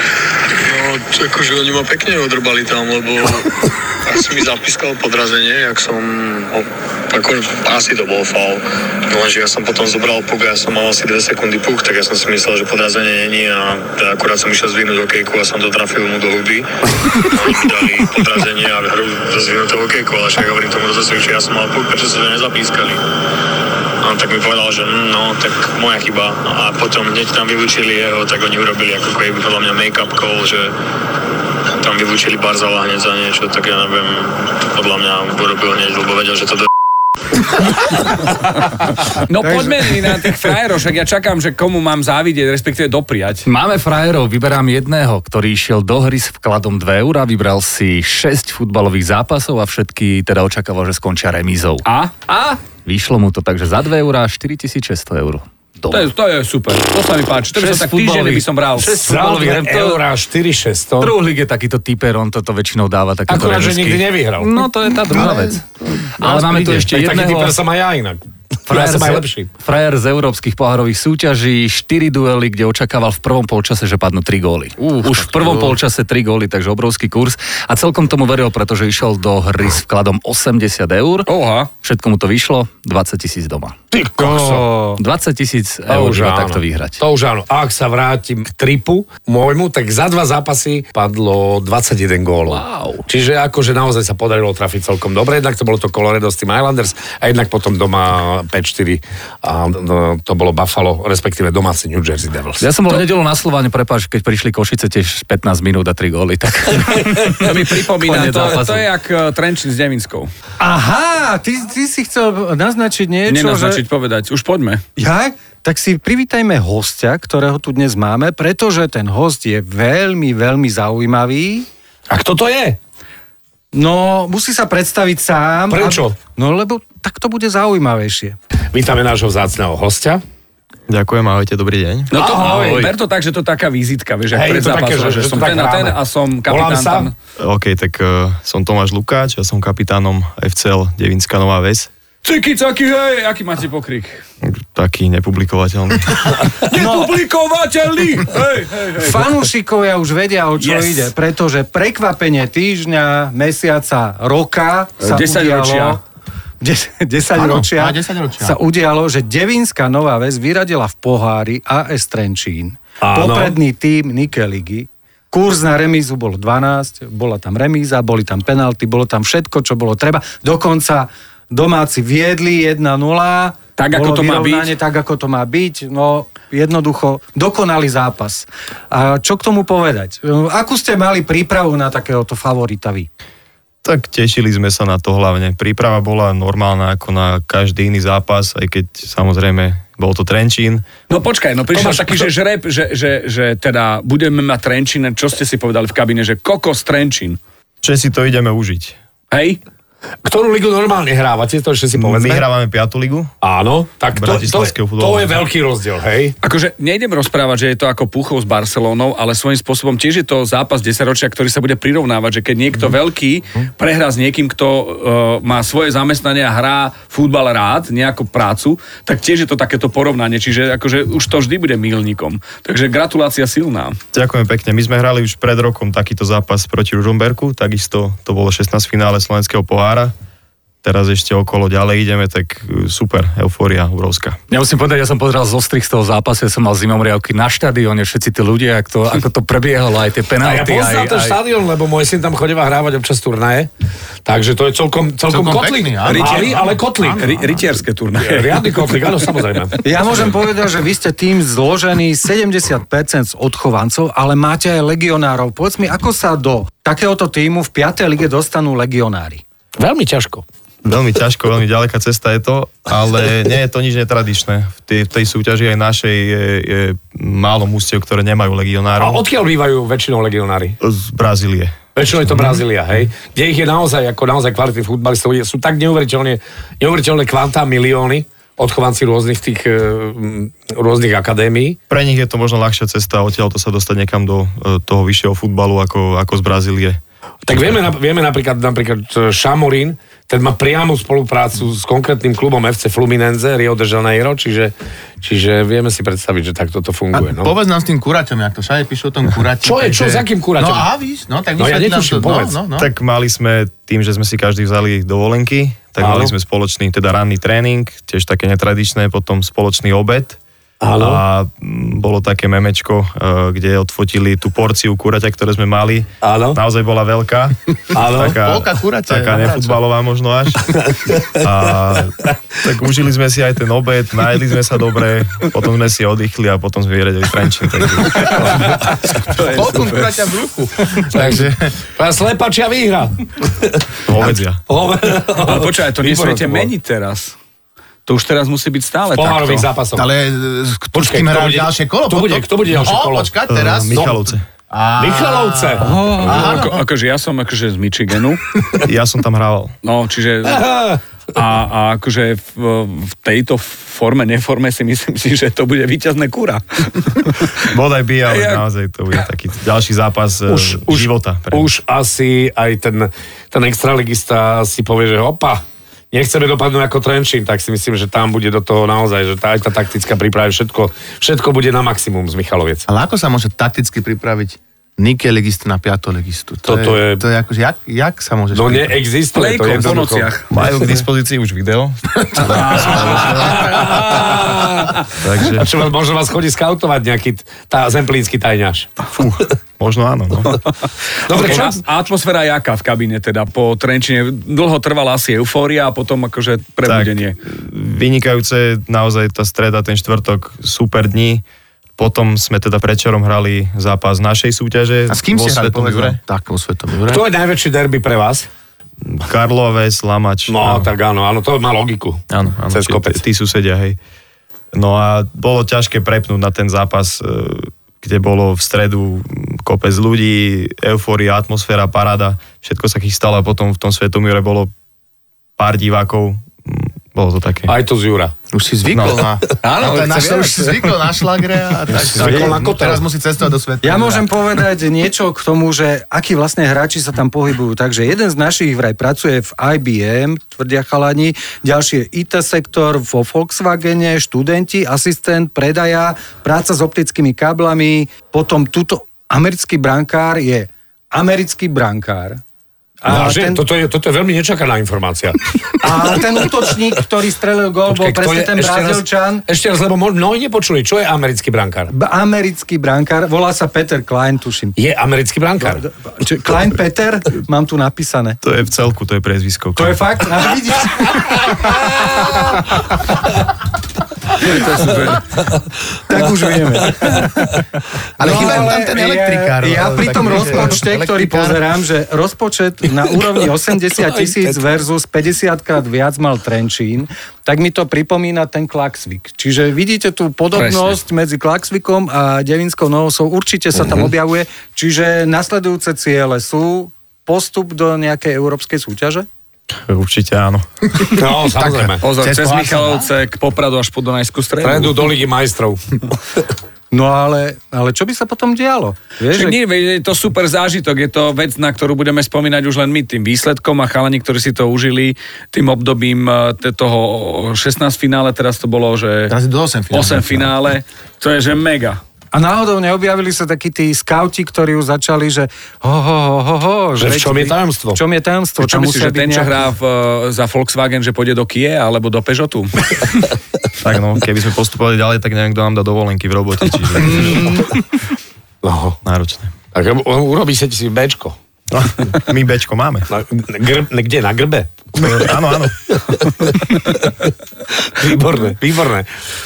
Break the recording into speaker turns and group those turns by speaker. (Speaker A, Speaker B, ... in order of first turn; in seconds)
Speaker A: 0.6-16.7, 17.3-23.1, 24.0-30.8, 31.7-36.7
Speaker B: 39.2-43.5, 51.8-52.6, 55.9-59.1, 81.2-81.7, 107.1-110.3, 113.2-114.8, 132.1-137.2, 142.2-144.2, 146.6-149.2, 150.6-151.1, 155.0-156.0, 173.8-174.7, 191.1-197.4, 199.3-199.6, 206.4-224.0, 246.0-249.2, 328.2-330.1, 335.4-337.4, 338.1-339.7, 346.0-348.4, 349.8-350.7, 351.3-357.6, 358.3-359.2, 379.3-380.5, 382.4-384.7, 391.3-397.4, 429.6-430.9, 474.4-475.3, 502.0-505.0, 509.3-519.4, 519.9-522.0, 528.6-533.2
Speaker C: 39.4-39.8, 84.2-85.0, 110.6-113.8, 115.0-121.7, 123.7-128.3, 146.7-147.1, 149.0-156.0, 156.6-183.1, 249.8-259.4, 433.8-452.4, 453.0-453.6, 455.8-459.4, 461.9-464.8, 465.6-468.4, 469.8-471.8, 476.0-477.5, 478.2-499.3, 506.9-509.6, 522.3-529.5
Speaker D: 43.5-51.9, 52.8-56.1, 57.5-60.0, 61.0-67.6, 68.7-84.3, 85.0-87.0, 92.5-93.0, 102.5-108.8, 132.4-132.9, 234.5-241.4
Speaker E: 59.0-61.1, 63.3-64.5, 66.8-69.5, 83.9-84.7, 85.9-102.7, 122.1-122.8, 125.7-126.2, 128.7-130.2, 132.2-132.8, 134.3-137.1, 163.0-163.6, 191.7-192.2, 200.2-202.4, 203.4-206.3, 240.4-243.7, 244.2-247.2, 248.2-250.3, 259.8-260.4, 269.0-270.8, 271.9-281.8, 287.4-297.5, 299.6-300.9, 301.6-302.6, 306.0-306.3, 310.8-311.2, 316.2-316.6, 317.9-318.4, 320.7-321.4, 331.1-334.0, 334.7-336.7, 339.1-340.1, 340.9-343.3, 343.9-344.2, 345.0-346.6, 350.4-351.0, 360.5-372.9, 376.6-377.2, 378.5-380.3, 383.2-384.9, 385.5-388.9, 391.3-391.8, 407.1-408.5, 410.5-413.2, 427.7-428.3, 431.9-433.1, 453.0-456.5, 457.9-461.9, 464.8-465.8, 477.0-477.6, 478.2-478.7, 490.5-490.9, 501.1-502.0, 504.6-506.4, 527.0-528.0, 538.6-539.0, 539.7-541.4, 543.1-545.3, 545.9-549.1
Speaker F: 65.0-66.8, 75.1-75.7, 157.3-158.6, 245.2-247.8, 297.1-302.9, 318.3-319.8, 329.5-331.7, 334.2-334.4, 339.9-344.0, 344.7-346.8, 372.9-379.0, 379.7-380.2, 382.4-383.5, 405.1-407.2, 428.5-434.2, 478.2-481.6, 501.5-503.1, 519.3-520.5
Speaker G: 130.9-132.1, 137.4-141.9, 144.4-146.4, 183.8-190.8, 197.8-198.9, 201.9-203.3, 204.1-205.4, 224.1-230.1, 230.8-234.4, 260.8-269.2, 270.8-272.6, 281.9-287.0, 302.8-310.4, 311.0-320.8, 321.3-328.7, 334.1-334.6, 343.5-344.4, 348.8-349.8, 357.7-361.7, 380.5-384.4, 385.2-385.7, 389.1-390.6, 396.8-401.4, 402.0-406.2, 409.0-410.9, 412.3-414.0, 414.7-424.7, 425.6-427.7, 428.9-429.2, 432.2-432.5, 468.4-470.0, 499.9-501.4, 533.8-537.5, 539.0-539.5, 541.7-543.1, 545.0-545.8